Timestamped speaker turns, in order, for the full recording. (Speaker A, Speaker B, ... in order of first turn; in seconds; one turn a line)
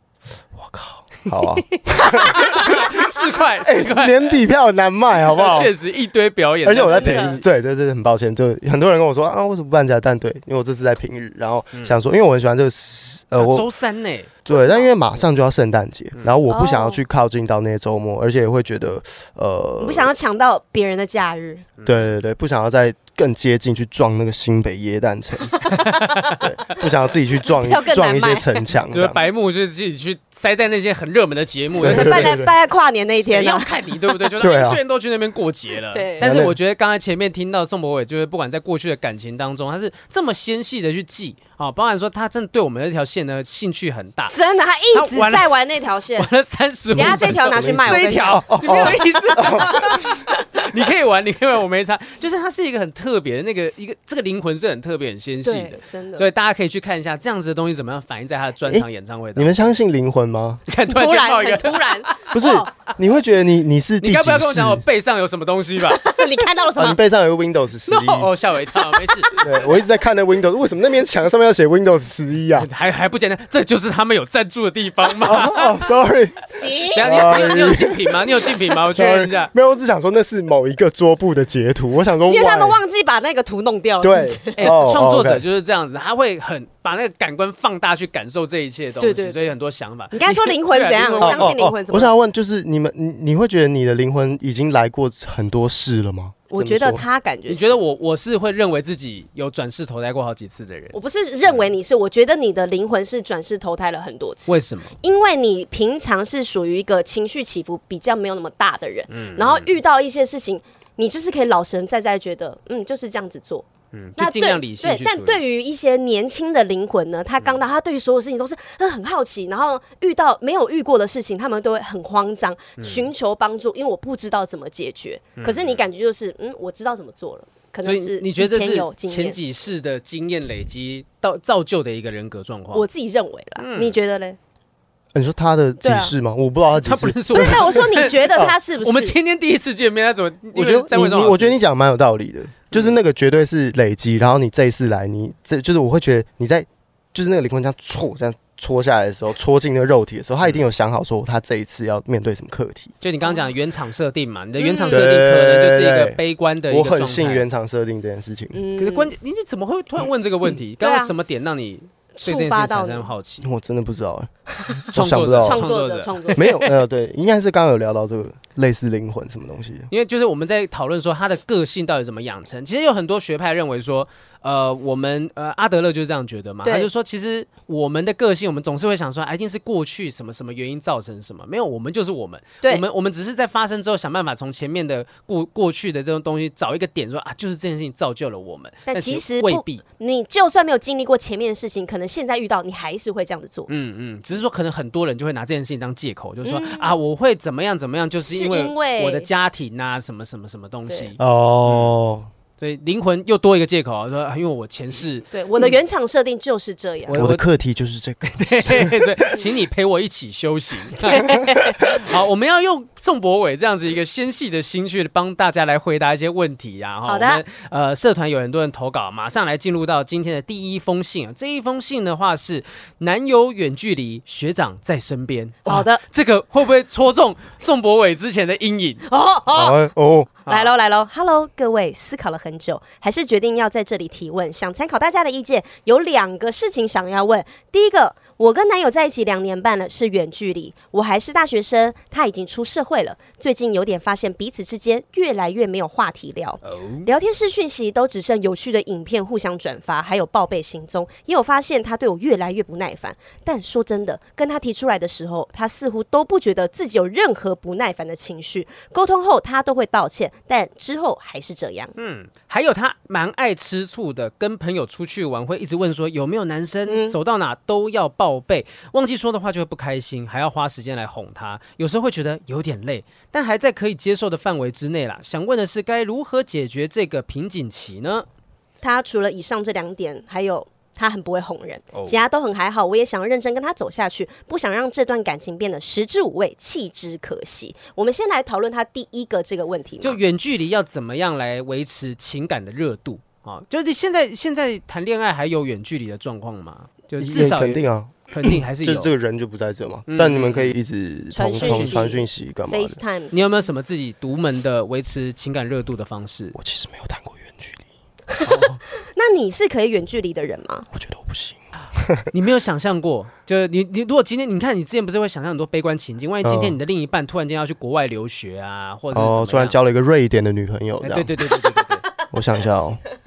Speaker A: 0.6-3.0
Speaker B: 1.7-4.4
Speaker C: 2.0-2.6
Speaker A: 3.6-5.7
Speaker B: 5.2-7.4
Speaker A: 6.6-13.7
Speaker C: 6.8-7.4
Speaker B: 13.3-14.5
Speaker A: 14.4-20.1
Speaker C: 14.5-14.9
Speaker C: 16.5-17.0
Speaker C: 19.8-21.7
Speaker B: 21.8-22.1
Speaker A: 21.9-25.7
Speaker C: 25.5-26.4
Speaker B: 25.8-26.4
Speaker A: 26.4-29.2
Speaker C: 27.5-28.6
Speaker B: 28.9-32.4
Speaker A: 31.8-32.5
Speaker C: 31.8-34.3
Speaker B: 33.1-44.4
Speaker A: 34.4-34.8
Speaker C: 35.9-36.2
Speaker A: 36.2-36.6
Speaker C: 44.3-46.3
Speaker B: 44.9-45.5
Speaker B: 46.2-59.6
Speaker A: 46.9-50.1
Speaker C: 46.9-50.4
Speaker C: 55.4-56.3
Speaker A: 59.4-60.6
Speaker B: 60.7-62.3
Speaker C: 60.9-62.7
Speaker A: 62.3-64.8
Speaker B: 64.0-66.2
Speaker C: 65.9-67.0
Speaker A: 66.8-68.3
Speaker B: 67.9-69.5
Speaker C: 68.9-69.4
Speaker A: 69.4-72.7
Speaker B: 72.5-75.9
Speaker A: 75.2-76.5
Speaker C: 76.5-77.3
Speaker B: 76.9-79.5
Speaker A: 77.0-82.8
Speaker C: 82.3-84.7
Speaker A: 84.0-85.4
Speaker B: 84.6-91.5
Speaker C: 89.0-89.4
Speaker C: 90.1-92.2
Speaker A: 91.2-97.0
Speaker C: 96.5-97.8
Speaker B: 97.5-101.7
Speaker C: 100.9-113.7
Speaker B: 104.5-105.0
Speaker B: 109.1-109.7
Speaker B: 113.9-115.4
Speaker C: 114.2-129.4
Speaker B: 122.8-123.1
Speaker B: 125.4-125.8
Speaker B: 127.8-132.9
Speaker C: 132.7-134.4
Speaker B: 133.6-134.0
Speaker A: 135.1-137.8
Speaker C: 135.8-136.2
Speaker B: 136.8-141.6
Speaker C: 137.3-139.2
Speaker A: 140.5-152.9
Speaker B: 153.0-157.5
Speaker C: 154.6-155.0
Speaker A: 154.9-158.6
Speaker C: 158.5-159.1
Speaker B: 158.8-163.5
Speaker C: 160.8-161.1
Speaker C: 162.2-163.1
Speaker A: 163.4-164.3
Speaker A: 164.9-165.7
Speaker B: 164.9-166.7
Speaker C: 165.4-166.6
Speaker A: 166.3-169.9
Speaker B: 169.9-189.8
Speaker C: 176.6-176.9
Speaker C: 188.9-193.7
Speaker B: 193.7-201.9
Speaker C: 196.4-196.9
Speaker C: 198.3-199.3
Speaker A: 201.2-202.3
Speaker B: 202.6-205.3
Speaker C: 205.3-207.2
Speaker B: 207.1-207.5
Speaker A: 207.2-209.3
Speaker B: 208.3-229.1
Speaker C: 211.1-211.8
Speaker C: 217.1-217.4
Speaker C: 225.7-226.0
Speaker C: 229.1-229.8
Speaker A: 229.5-230.4
Speaker C: 230.5-261.9
Speaker B: 246.7-247.1
Speaker B: 262.0-278.3
Speaker C: 266.9-267.1
Speaker C: 278.8-290.2
Speaker B: 281.9-282.2
Speaker B: 290.0-299.1
Speaker A: 297.2-303.0
Speaker B: 300.1-300.8
Speaker C: 301.3-303.5
Speaker B: 301.6-302.1
Speaker B: 303.3-306.6
Speaker A: 306.5-307.8
Speaker C: 308.3-310.9
Speaker B: 308.5-308.8
Speaker A: 310.9-312.3
Speaker B: 312.3-319.8
Speaker A: 316.4-316.8
Speaker A: 319.1-321.4
Speaker B: 321.0-322.0
Speaker A: 322.3-323.0